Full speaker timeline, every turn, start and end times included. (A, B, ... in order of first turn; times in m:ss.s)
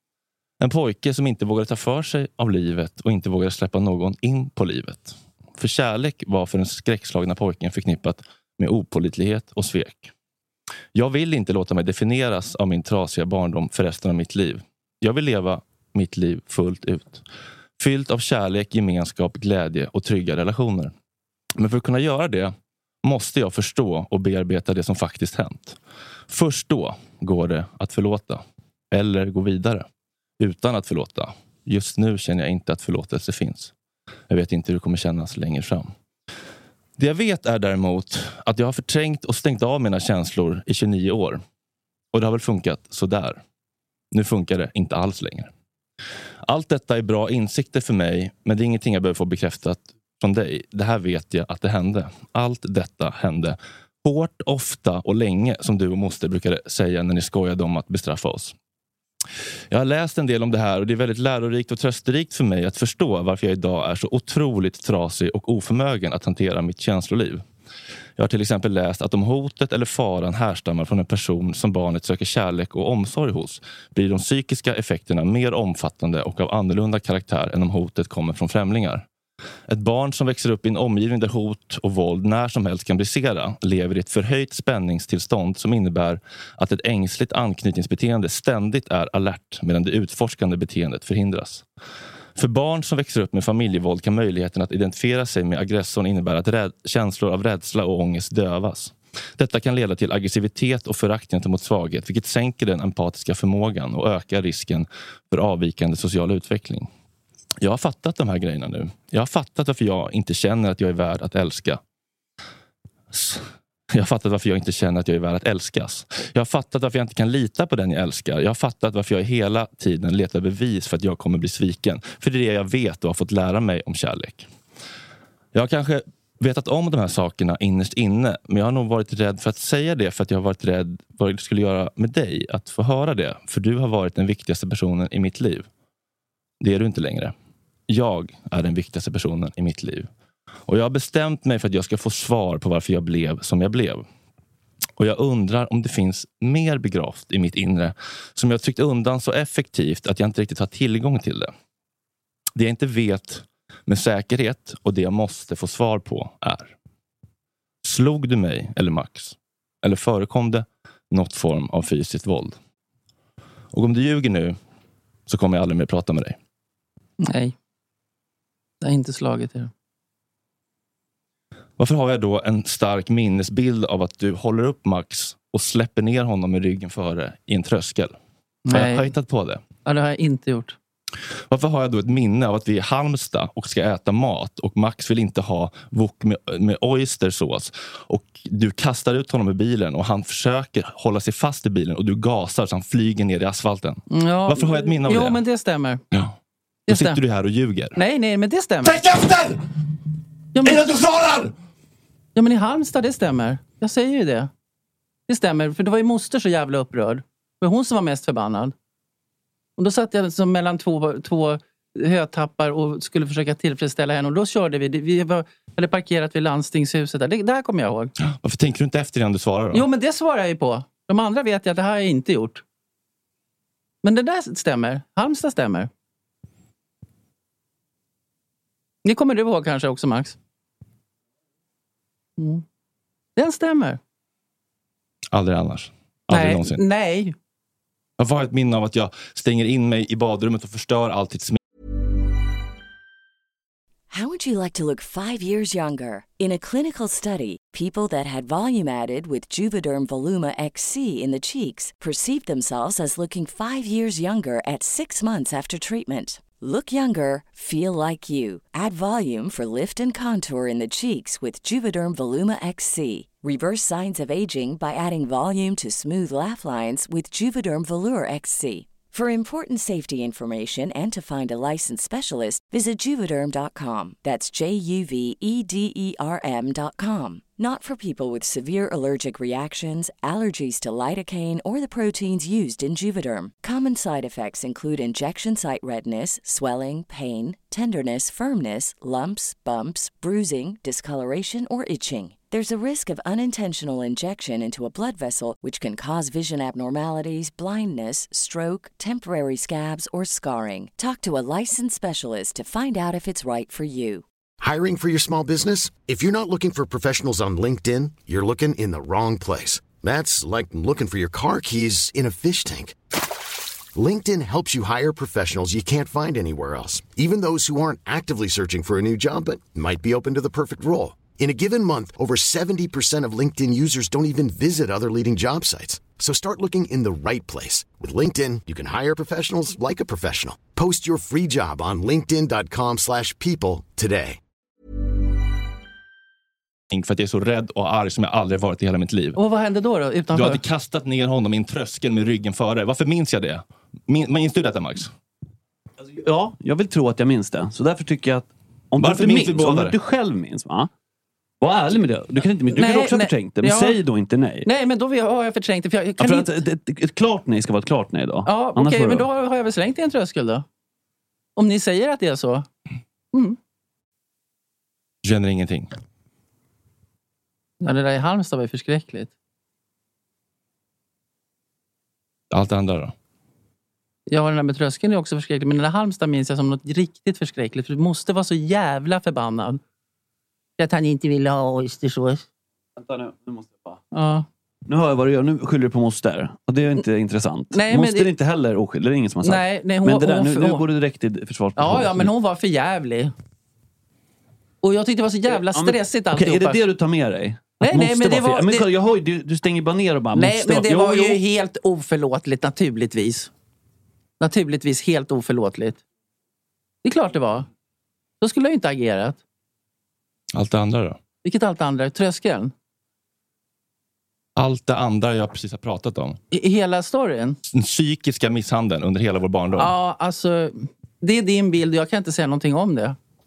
0:00.6-0:10.1 A
0:10.9-0:17.2 A
0:17.8-0:20.9 A
0:21.6-0:25.8 A
0:26.3-0:29.9 A
0:30.4-0:33.7 A
0:34.3-0:35.9 A
0:37.0-0:41.4 A
0:42.1-0:43.4 A
0:44.1-0:45.5 A
0:46.4-0:58.6 A
0:59.7-1:07.4 A
1:08.2-1:19.0 A
1:19.7-1:31.6 A
1:32.4-1:46.9 A
1:47.6-1:51.8 A
1:53.1-2:04.5 A
2:05.5-2:15.7 A
2:16.6-2:17.3 A
2:17.9-2:20.1 A
2:20.7-2:24.0 A
2:25.0-2:31.5 A
2:32.6-2:36.8 A
2:37.8-2:42.6 A
2:43.7-2:44.6 A
2:45.3-2:46.4 A
2:47.2-2:47.5 B
2:48.8-2:49.7 B
2:51.8-2:58.2 A
2:58.7-2:59.1 B
2:58.7-2:59.6 A
2:59.9-3:00.8 B
3:01.5-3:15.4 A
3:14.1-3:16.0 B
3:16.9-3:17.2 B
3:16.9-3:18.0 A
3:18.0-3:19.0 B
3:18.8-3:19.6 A
3:20.6-3:20.8 B
3:20.6-3:21.5 A
3:22.4-3:24.5 B
3:25.3-3:28.7 B
3:29.8-3:38.1 B
3:38.2-3:39.9 A
3:39.7-3:42.6 B
3:44.0-3:45.9 B
3:49.0-3:50.4 B
3:52.4-3:52.6 B
3:53.4-3:54.0 B
3:55.3-3:56.8 A
3:56.3-3:57.3 B
3:58.2-4:01.6 A
4:04.1-5:04.2 C
5:04.6-5:13.0 D
5:14.0-5:34.4 D
5:36.9-5:39.4 A
5:39.4-5:40.6 B
5:40.3-5:45.1 A
5:46.0-5:50.9 E
5:49.0-5:50.0 A
5:51.6-5:54.7 E
5:52.7-5:54.0 B
5:54.6-5:56.6 B
5:56.2-5:59.3 E
5:58.5-6:00.6 B
6:01.6-6:02.7 B
6:03.3-6:03.6 B
6:05.2-6:05.9 A
6:07.8-6:09.3 B
6:12.5-6:13.1 A
6:14.3-6:19.8 B
6:20.8-6:22.4 B
6:23.0-6:24.0 E
6:24.1-6:24.5 B
6:24.9-6:32.3 E
6:27.7-6:28.3 B
6:29.4-6:30.9 B
6:31.8-6:33.3 B
6:34.8-6:36.8 B
6:35.5-6:41.4 E
6:37.8-6:38.9 B
6:40.4-6:43.5 B
6:44.4-6:46.0 B
6:47.0-6:47.7 B
6:48.4-6:49.4 B
6:50.5-6:51.2 A
6:51.4-6:52.7 B
6:54.6-6:56.4 A
6:56.5-6:57.6 B
6:57.7-6:59.9 A
6:59.8-7:03.2 B